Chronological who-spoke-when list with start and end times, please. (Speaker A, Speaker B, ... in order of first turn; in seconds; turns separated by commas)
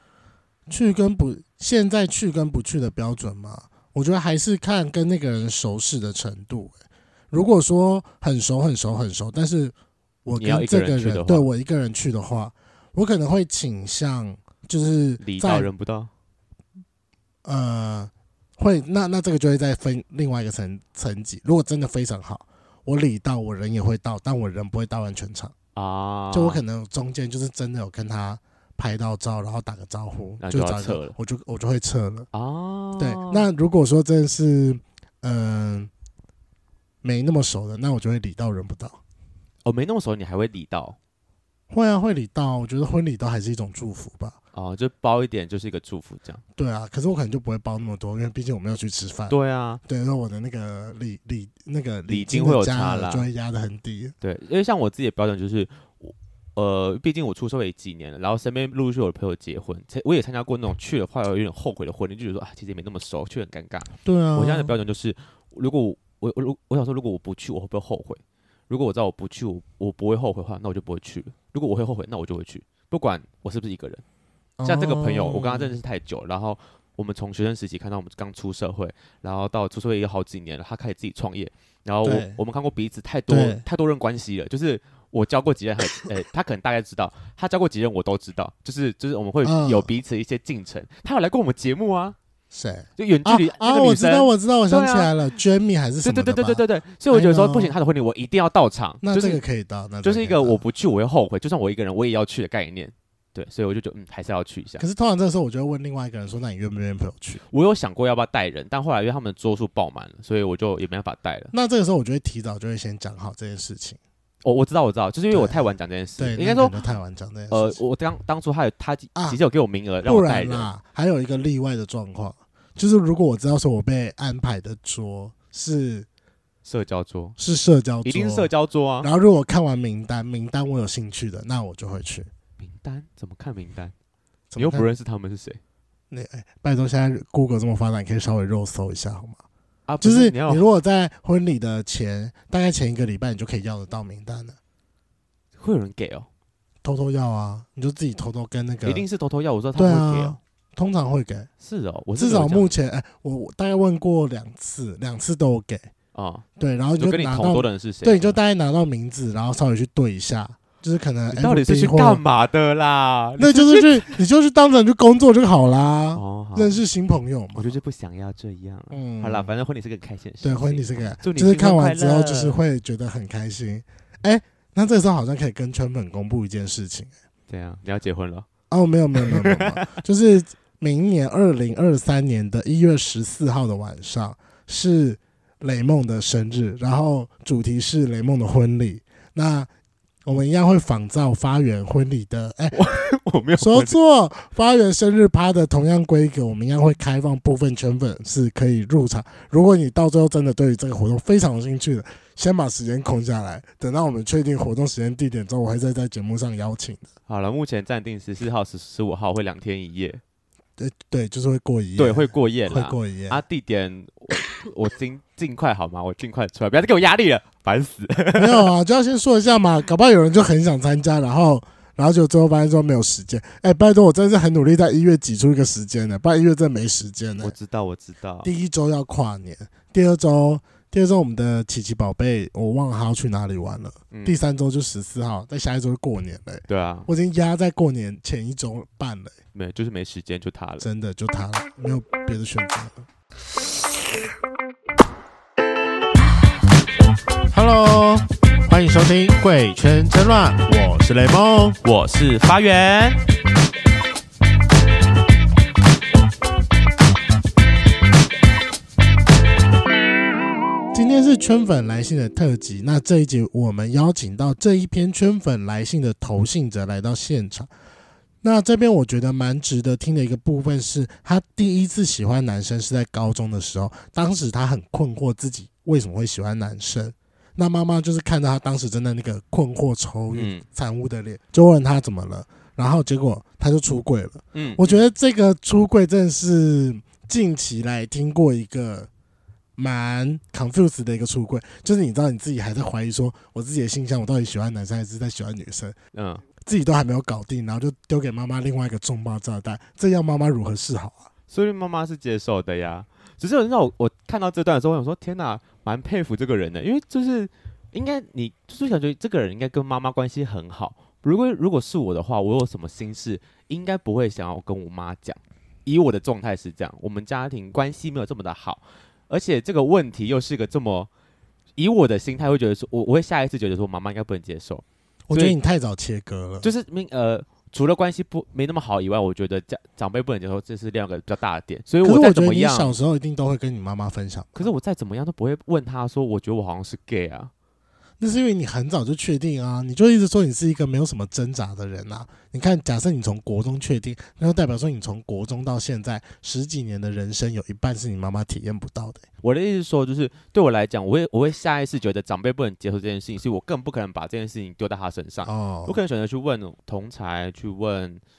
Speaker A: 0.7-6.8, Speaker A: 7.3-9.7, Speaker A: 10.2-15.7, Speaker B: 10.4-11.5, Speaker B: 15.2-16.1, Speaker A: 17.4-25.5, Speaker B: 25.8-26.6, Speaker A: 26.3-32.3, Speaker B: 30.4-31.2, Speaker B: 32.3-33.5, Speaker A: 33.0-35.9, Speaker A: 37.0-39.0, Speaker B: 39.6-41.0, Speaker A: 41.7-44.4, Speaker B: 44.5-46.4, Speaker A: 46.6-54.1, Speaker B: 49.3-49.8, Speaker B: 52.1-53.3, Speaker B: 54.2-74.0, Speaker A: 64.0-64.7, Speaker A: 74.6-75.8, Speaker B: 74.7-92.2, Speaker A: 82.0-82.4, Speaker A: 83.3-83.6, Speaker A: 89.4-89.9, Speaker A: 92.5-97.7, Speaker B: 93.0-95.1, Speaker B: 96.0-99.4, Speaker A: 99.0-100.6, Speaker B: 100.0-104.8, Speaker A: 104.8-107.4, Speaker B: 107.5-111.5, Speaker A: 111.5-114.0, Speaker B: 114.4-116.8, Speaker A: 115.3-115.6, Speaker A: 116.2-117.8, Speaker B: 117.5-120.7, Speaker A: 120.0-126.1, Speaker B: 126.6-127.4, Speaker A: 127.4-128.5, Speaker B: 128.0-129.1, Speaker A: 129.0-132.3, Speaker B: 132.6-133.9, Speaker A: 134.5-134.9, Speaker B: 134.6-135.6, Speaker A: 136.1-139.4, Speaker B: 139.9-140.7, Speaker A: 140.0-144.6, Speaker B: 145.6-146.3, Speaker A: 146.8-149.1, Speaker B: 148.8-150.4, Speaker A: 149.8-151.5, Speaker B: 151.6-152.7, Speaker A: 152.2-155.9, Speaker B: 156.1-156.5, Speaker A: 156.6-162.2, Speaker B: 157.0-158.4, Speaker B: 161.3-164.2, Speaker A: 163.4-167.8, Speaker B: 166.1-166.8, Speaker B: 167.6-172.6, Speaker A: 168.9-169.5, Speaker A: 170.4-177.1, Speaker B: 177.5-178.5, Speaker A: 178.7-189.7, Speaker B: 179.2-179.9, Speaker A: 190.2-192.8, Speaker B: 192.7-193.9, Speaker A: 193.6-207.1, Speaker B: 207.3-210.2, Speaker A: 210.8-213.4, Speaker B: 212.0-218.7, Speaker A: 218.4-227.5, Speaker B: 227.4-228.5, Speaker A: 228.4-239.4, Speaker B: 234.1-234.4, Speaker B: 236.7-237.1, Speaker B: 239.5-240.9, Speaker A: 240.8-243.0, Speaker A: 247.5-251.8, Speaker B: 251.8-253.2, Speaker A: 260.9-267.7, Speaker A: 268.4-289.1, Speaker B: 280.3-280.6, Speaker B: 284.5-285.0, Speaker A: 289.8-296.0, Speaker B: 296.1-296.4, Speaker A: 296.6-301.3, Speaker B: 301.5-321.1, Speaker B: 321.8-325.6, Speaker A: 325.3-326.7, Speaker B: 326.6-333.0, Speaker A: 332.0-334.7, Speaker B: 334.6-337.5, Speaker A: 338.2-349.2, Speaker B: 349.4-358.2, Speaker A: 355.4-356.0